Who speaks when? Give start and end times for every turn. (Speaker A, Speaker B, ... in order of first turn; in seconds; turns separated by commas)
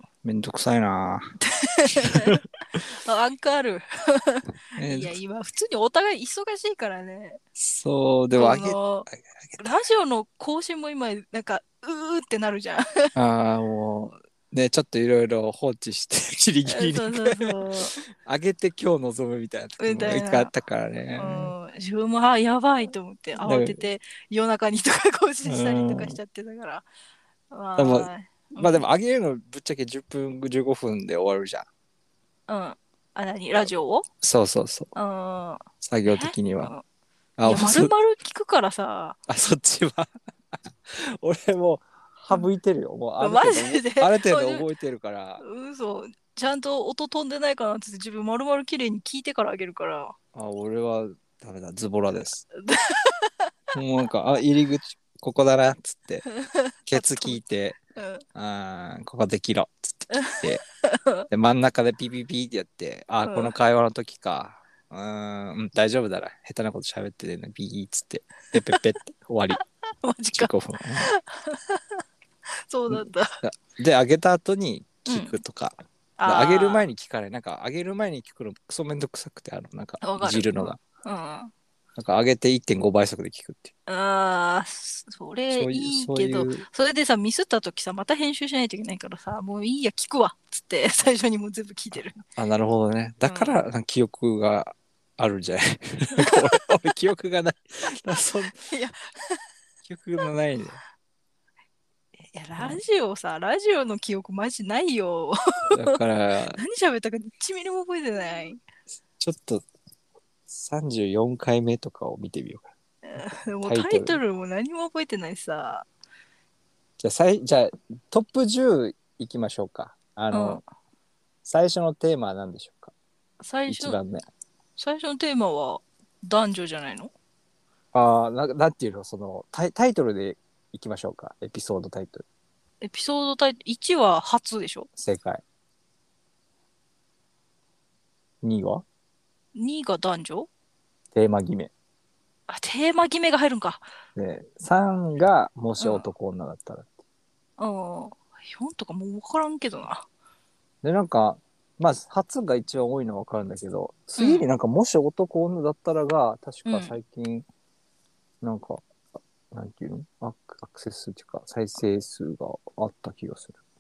Speaker A: 0.2-1.3, Speaker B: 1.4-7.4, Speaker A: 1.9-2.4, Speaker A: 4.8-5.1, Speaker A: 7.5-9.6, Speaker B: 8.3-9.1, Speaker B: 9.6-13.1, Speaker A: 13.1-21.5, Speaker B: 16.7-17.9, Speaker B: 19.8-20.5, Speaker B: 21.1-26.9, Speaker A: 23.4-23.9, Speaker A: 25.4-26.2, Speaker B: 27.5-28.9, Speaker A: 27.8-31.6, Speaker B: 32.5-34.0, Speaker A: 34.2-34.9, Speaker B: 35.0-36.8, Speaker A: 35.8-36.7, Speaker A: 37.4-37.9, Speaker B: 37.5-39.2, Speaker A: 39.3-40.1, Speaker A: 40.9-45.4, Speaker B: 43.2-44.6, Speaker B: 45.4-50.1, Speaker A: 50.3-52.5, Speaker B: 52.5-53.5, Speaker A: 53.7-56.3, Speaker B: 56.2-57.4, Speaker A: 56.9-57.8, Speaker B: 58.0-58.2, Speaker A: 58.4-60.6, Speaker B: 60.1-61.3, Speaker A: 61.3-69.6, Speaker B: 63.2-63.5, Speaker B: 69.9-72.0, Speaker A: 70.3-71.1, Speaker B: 72.5-73.4, Speaker A: 72.9-80.8, Speaker B: 75.1-75.4, Speaker B: 76.2-76.9, Speaker B: 80.0-81.5, Speaker A: 82.0-83.7, Speaker B: 83.9-92.2, Speaker A: 85.5-86.7, Speaker A: 91.9-98.6, Speaker B: 93.2-93.6, Speaker B: 98.7-99.4, Speaker A: 99.9-100.8, Speaker B: 102.2-106.0, Speaker A: 105.7-106.6, Speaker B: 106.5-108.6, Speaker A: 109.2-109.6, Speaker A: 110.5-112.7, Speaker B: 113.0-115.9, Speaker A: 113.6-114.2, Speaker A: 117.0-120.6, Speaker B: 120.3-120.6, Speaker A: 121.5-122.9, Speaker B: 123.4-124.0, Speaker A: 123.7-124.2, Speaker B: 124.8-127.1, Speaker A: 127.9-132.2, Speaker B: 132.8-134.9, Speaker A: 135.0-135.4, Speaker A: 138.4-138.8, Speaker B: 139.5-140.5, Speaker A: 141.1-141.7, Speaker B: 142.5-143.9, Speaker A: 144.2-146.9, Speaker B: 145.8-146.1, Speaker B: 147.6-150.1, Speaker A: 150.8-157.5, Speaker B: 154.2-154.5, Speaker B: 156.7-156.9, Speaker A: 158.4-158.8, Speaker A: 159.5-163.6